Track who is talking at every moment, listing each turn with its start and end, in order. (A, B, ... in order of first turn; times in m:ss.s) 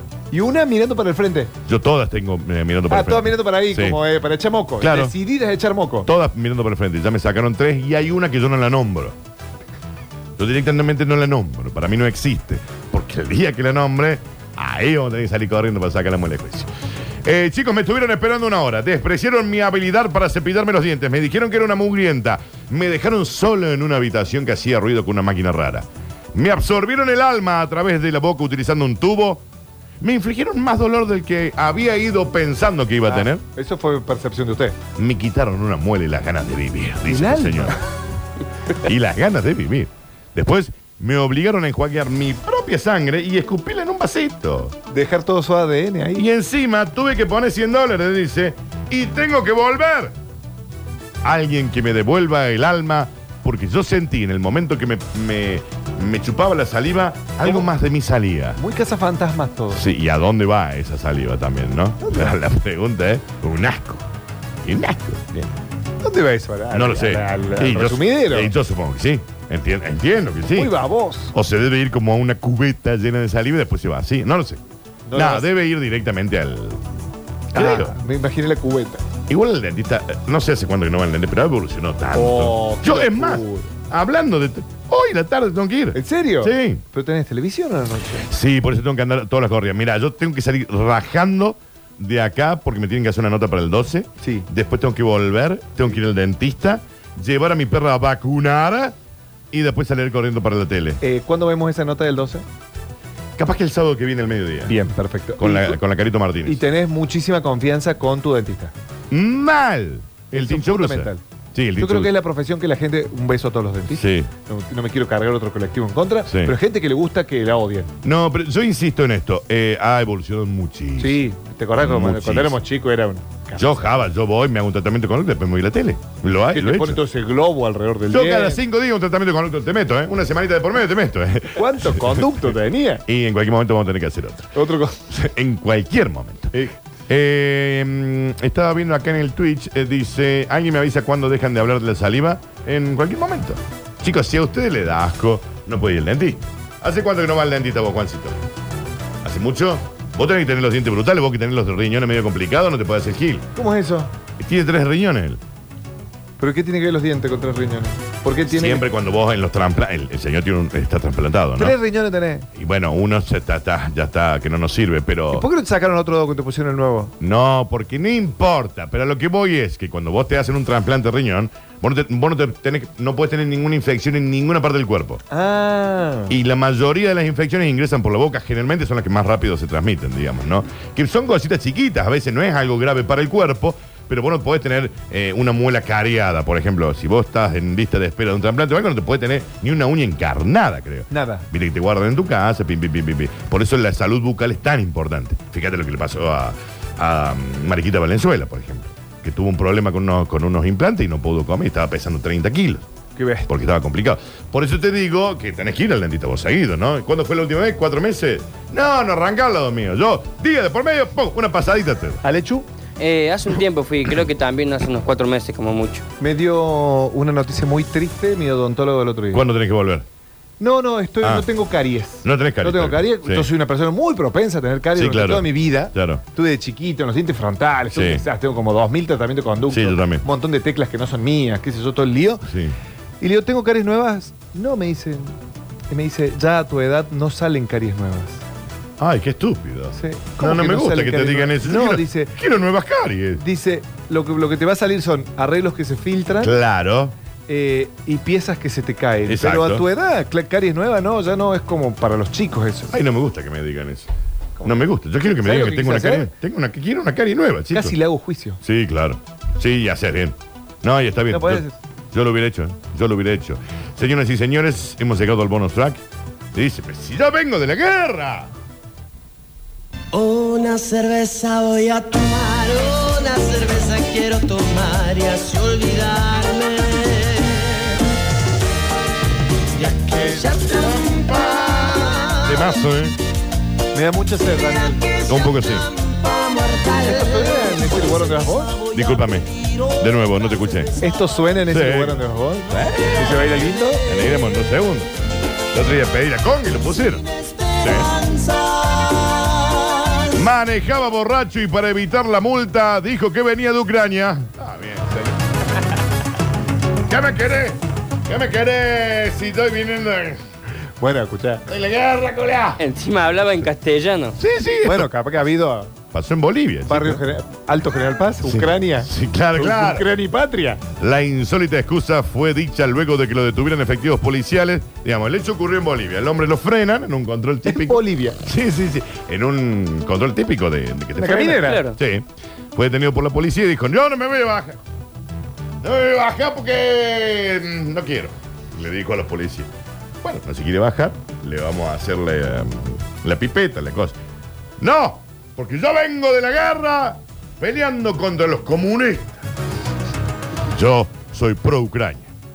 0:00.3-0:01.5 A
0:01.7-0:04.0 B
0:02.9-0:06.1 A
0:04.8-0:05.2 B
0:06.1-0:09.2 B
0:10.4-0:16.7 B
0:17.2-0:29.4 B
0:30.0-0:33.4 B
0:33.0-0:34.8 A
0:35.0-0:37.8 B
0:37.1-0:37.8 A
0:38.8-0:44.8 B
0:44.9-0:46.3 A
0:46.2-0:50.2 B
0:51.2-0:58.6 B
0:58.6-0:59.8 A
0:59.7-1:04.1 B
1:02.0-1:02.4 A
1:04.6-1:05.5 B
1:06.0-1:08.5 A
1:06.7-1:10.7 B
1:10.5-1:11.3 A
1:11.3-1:14.6 B
1:15.1-1:15.5 A
1:15.1-1:16.8 B
1:17.5-1:18.0 B
1:17.5-1:19.0 A
1:19.3-1:26.8 B
1:22.1-1:23.7 A
1:25.9-1:28.3 A
1:28.3-1:39.0 B
1:34.2-1:34.5 A
1:39.5-1:41.0 B
1:41.0-1:42.4 A
1:43.4-1:44.8 B
1:44.7-1:45.8 A
1:45.4-1:46.6 B
1:46.5-1:48.7 A
1:49.1-1:52.1 B
1:50.3-1:51.2 A
1:51.8-1:57.9 A
1:53.9-1:54.3 B
1:56.3-1:56.6 B
1:58.0-2:01.2 B
2:01.0-2:03.7 A
2:01.8-2:02.6 B
2:03.6-2:07.0 B
2:06.5-2:08.6 A
2:08.1-2:12.5 B
2:11.6-2:13.0 A
2:13.1-2:16.6 B
2:14.5-2:15.0 A
2:17.1-2:28.4 B
2:29.2-2:33.5 B
2:33.6-2:34.1 A
2:34.4-2:35.4 B
2:36.4-2:38.9 A
2:38.5-2:41.8 B
2:41.6-2:42.5 A
2:42.6-2:45.5 B
2:45.3-2:47.1 A
2:47.2-2:55.2 B
2:55.3-2:56.4 A
2:56.3-3:22.9 B
3:11.1-3:11.4 A
3:23.2-3:23.5 A
3:23.5-3:32.2 B
3:32.2-3:32.7 A
3:33.0-3:36.0 C
3:36.2-3:39.4 A
3:39.3-3:40.1 B
3:40.6-3:52.5 A
3:41.2-3:41.5 B
3:42.2-3:43.5 B
3:45.0-3:46.2 B
3:47.9-3:48.2 B
3:49.7-3:50.2 B
3:52.4-3:52.8 B
3:53.2-3:55.4 A
3:55.9-3:58.4 A
3:59.0-4:03.4 B
3:59.9-4:02.3 A
4:03.4-4:06.5 A
4:06.4-4:07.2 B
4:07.5-4:13.0 A
4:09.3-4:09.9 B
4:12.9-4:14.1 B
4:14.6-4:18.0 B
4:15.4-4:16.3 A
4:17.7-4:18.6 A
4:18.6-4:26.0 B
4:21.3-4:21.8 A
4:26.5-4:28.5 B
4:30.1-4:38.0 D
4:39.8-4:42.6 D
4:41.5-4:43.2 B
4:43.9-4:45.1 A
4:45.3-4:45.9 B
4:46.0-4:47.2 D
4:47.0-4:48.8 A
4:48.9-4:51.0 B
4:51.0-4:54.0 A
4:51.7-4:55.1 B
4:55.7-4:57.2 B
4:57.5-4:59.9 D
4:57.8-4:58.1 B
5:00.3-5:05.4 B
5:07.1-5:10.4 B
5:11.0-5:11.7 A
5:11.7-5:12.8 B
5:12.8-5:14.4 C
5:14.4-5:15.1 B
5:14.8-5:15.9 A
5:16.1-5:17.2 B
5:16.9-5:20.8 A
5:18.4-5:20.1 B
5:21.0-5:34.8 B
5:27.7-5:28.4 A
5:31.2-5:31.8 A
5:31.7-5:32.0 C
5:35.8-5:39.7 B
5:40.2-5:44.2 B
5:44.8-5:49.4 B
5:50.7-5:52.3 B